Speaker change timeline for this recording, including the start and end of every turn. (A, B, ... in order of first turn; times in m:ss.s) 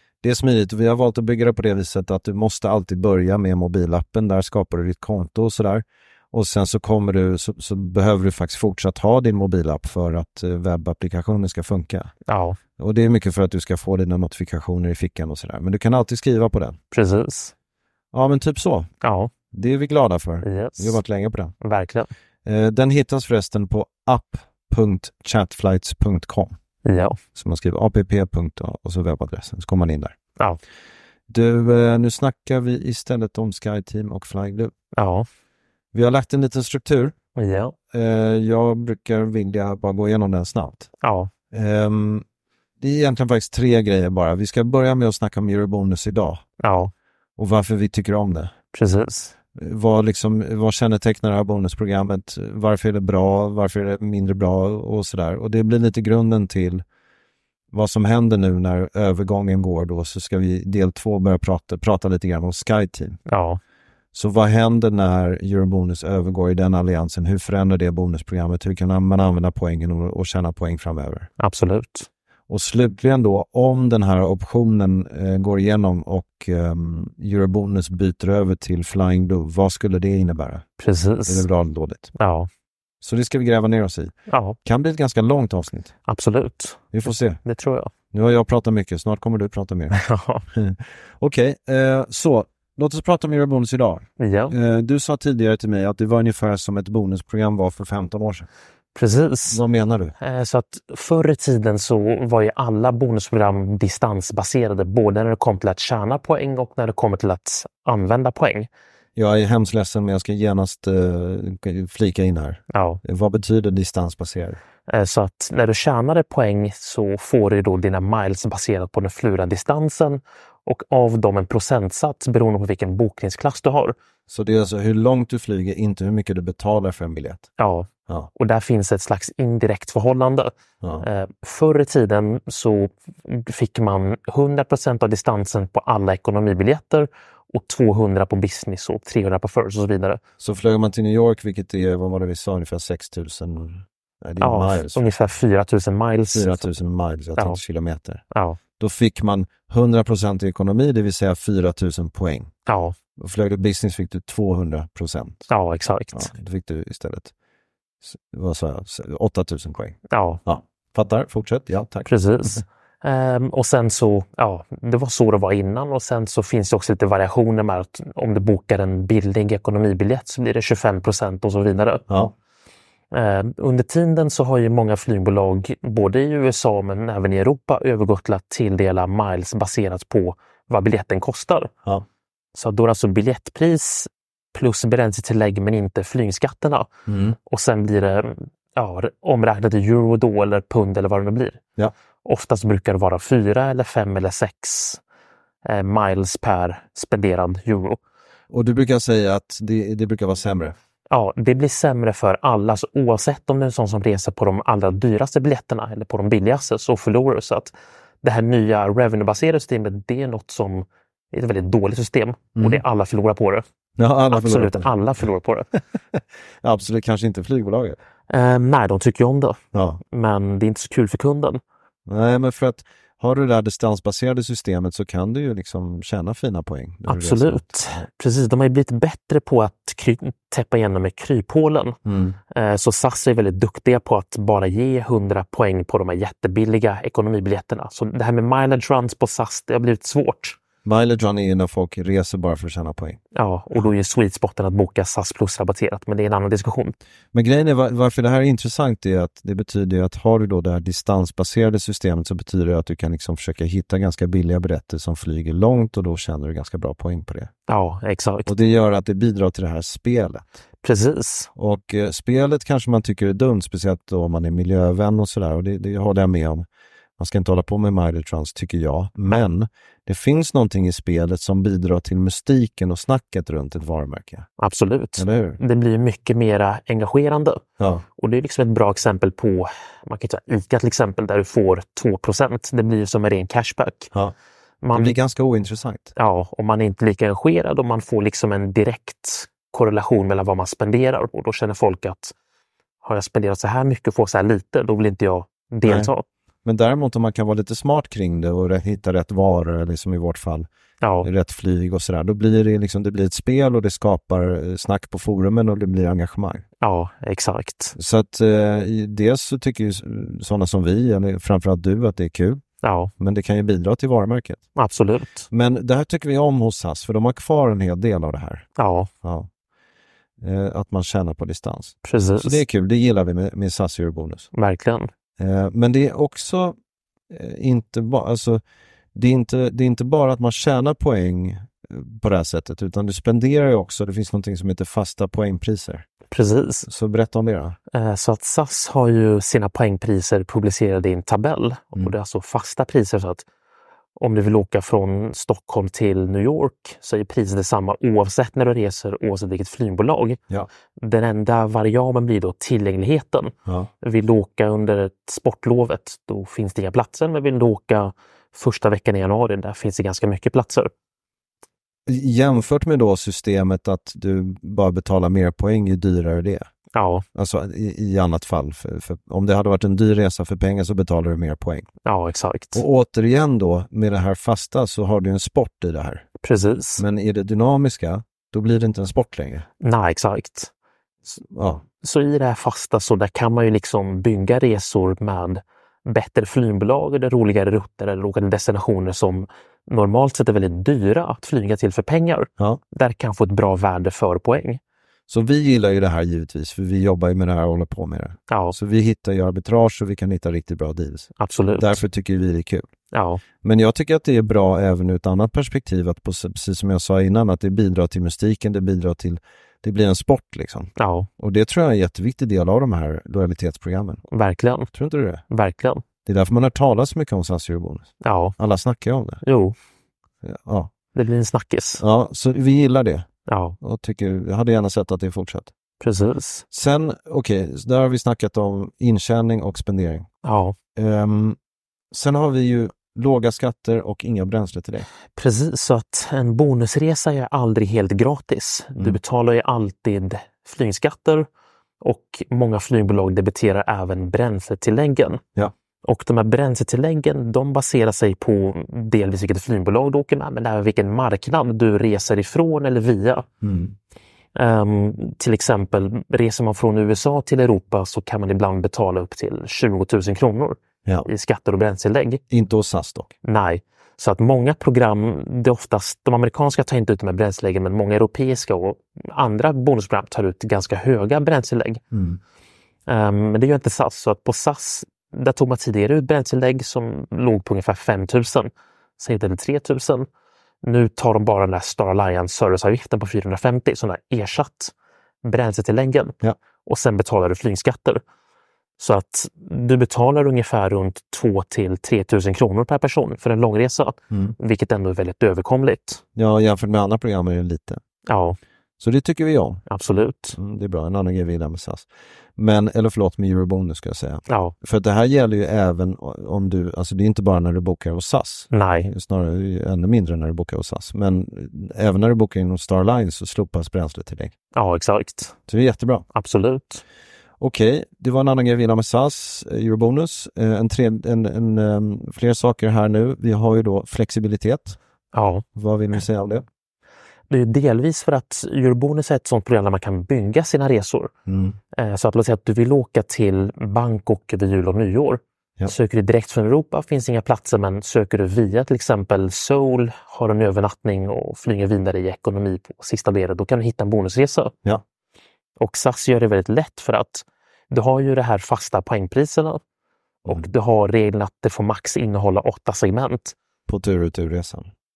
0:00.2-0:12.1 A
0:12.3-0:12.6 B
0:12.8-0:16.8 A
0:16.9-0:17.5 B
0:18.1-0:18.9 A
0:19.0-0:19.3 B
0:19.5-0:21.6 A
0:20.4-0:21.0 B
0:21.6-0:22.1 B
0:22.4-0:26.6 A
0:26.8-0:27.2 B
0:27.4-0:30.2 A
0:31.3-0:34.7 A
0:35.0-0:35.3 B
0:35.9-0:37.2 A
0:37.4-0:37.7 B
0:37.9-0:40.9 A
0:41.0-0:41.3 B
0:41.5-0:42.2 A
0:42.8-0:46.4 A
0:46.6-0:46.9 B
0:47.4-0:48.5 A
0:48.7-0:49.3 B
0:49.6-0:56.8 A
0:57.7-1:03.2 A
1:03.3-1:03.6 B
1:04.1-1:11.3 A
1:11.4-1:12.1 B
1:12.5-1:20.7 A
1:20.8-1:21.5 B
1:21.3-1:22.1 A
1:22.2-1:22.5 B
1:23.0-1:24.1 A
1:24.3-1:24.6 B
1:24.6-1:25.9 A
1:26.1-1:26.9 B
1:26.9-1:27.4 A
1:27.4-1:27.9 B
1:28.1-1:38.5 A
1:29.9-1:30.4 B
1:34.2-1:34.6 B
1:39.0-1:39.6 B
1:39.5-1:40.2 A
1:40.2-1:48.7 B
1:49.2-1:54.6 A
1:52.7-1:53.0 B
1:54.9-2:04.0 B
2:04.3-2:07.5 A
2:07.6-2:20.2 B
2:20.4-2:25.0 A
2:24.4-2:26.7 B
2:26.3-2:28.2 A
2:28.3-2:28.6 B
2:28.8-2:32.5 A
2:32.7-2:33.0 B
2:33.2-2:35.5 A
2:35.5-2:36.3 B
2:36.1-2:37.3 A
2:38.0-2:42.6 A
2:40.1-2:40.4 B
2:42.1-2:52.0 B
2:52.1-2:52.3 A
2:53.1-3:01.7 B
3:02.6-3:06.9 B
3:07.1-3:07.4 A
3:07.5-3:11.6 B
3:12.2-3:15.0 B
3:15.6-3:18.0 B
3:18.5-3:20.8 A
3:21.1-3:33.6 B
3:32.6-3:32.8 A
3:34.0-3:34.9 A
3:34.3-3:35.7 B
3:36.1-3:38.0 A
3:38.3-3:39.6 B
3:39.7-3:40.0 A
3:40.1-3:41.6 B
3:42.1-3:48.1 A
3:47.1-3:52.0 B
3:52.1-3:52.4 A
3:52.5-4:00.6 B
4:00.8-4:03.2 A
4:03.4-4:07.0 B
4:07.3-4:17.5 A
4:17.7-4:18.5 B
4:18.4-4:20.6 A
4:20.8-4:21.5 B
4:21.6-4:26.7 A
4:27.2-4:34.5 A
4:34.6-4:37.6 B
4:35.2-4:35.6 A
4:37.8-4:38.0 A
4:38.2-4:44.1 B
4:44.8-4:45.2 B
4:44.9-4:46.1 A
4:46.2-4:52.3 B
4:53.0-4:56.2 B
4:55.8-4:56.1 A
4:56.6-5:00.7 A
5:01.0-5:01.3 B
5:01.2-5:06.6 A
5:06.8-5:08.0 B
5:08.0-5:12.6 A
5:12.8-5:13.1 B
5:13.2-5:14.6 A
5:14.8-5:15.5 B
5:15.5-5:18.7 A
5:18.8-5:19.1 B
5:19.2-5:19.5 A
5:20.4-5:24.5 A
5:22.0-5:22.6 B
5:24.5-5:25.1 B
5:25.4-5:26.8 A
5:27.3-5:28.6 A
5:29.1-5:36.1 A
5:36.3-5:36.9 B
5:36.9-5:37.8 A
5:37.9-5:43.4 B
5:44.2-5:50.4 B
5:51.0-6:00.9 B
6:02.1-6:06.7 A
6:06.9-6:07.2 B
6:07.3-6:11.9 A
6:12.0-6:12.8 B
6:12.8-6:16.3 A
6:16.4-6:17.0 B
6:17.0-6:19.7 A
6:19.8-6:20.7 B
6:21.5-6:21.8 A
6:22.0-6:34.8 B
6:35.3-6:42.9 A
6:38.5-6:38.8 B
6:41.4-6:42.0 B
6:43.1-6:43.4 B
6:43.6-6:54.2 A
6:51.0-6:51.3 B
6:54.3-6:54.9 B
6:54.9-6:55.4 A
6:55.5-6:56.0 B
6:56.2-6:59.4 A
6:58.2-6:58.6 B
6:59.4-6:59.8 B
7:00.4-7:00.9 A
7:01.1-7:02.0 B
7:02.0-7:03.3 A
7:03.5-7:03.8 B
7:03.8-7:05.7 A
7:06.0-7:06.6 B
7:06.7-7:10.3 A
7:10.4-7:10.8 B
7:11.0-7:11.6 A
7:12.1-7:15.1 A
7:15.4-7:21.5 B
7:22.0-7:25.4 B
7:26.0-7:33.5 B
7:33.6-7:34.0 A
7:34.6-7:42.4 B
7:42.5-7:43.3 A
7:43.4-7:52.0 B
7:52.1-7:52.4 A
7:53.1-8:00.3 B
8:00.8-8:04.9 B
8:05.4-8:08.2 B
8:09.0-8:16.2 B
8:16.4-8:18.0 A
8:18.3-8:18.6 B
8:19.0-8:19.8 A
8:19.9-8:20.6 B
8:20.5-8:34.5 A
8:24.5-8:24.7 B
8:28.7-8:29.1 B
8:34.8-8:35.6 B
8:35.7-8:36.3 A
8:36.3-8:37.0 B
8:37.6-8:45.0 A
8:45.3-8:45.6 B
8:45.8-8:46.7 A
8:47.5-8:51.3 B
8:51.5-8:51.8 A
8:52.0-9:04.7 B
9:05.8-9:09.8 B
9:10.5-9:13.6 B
9:13.9-9:14.9 A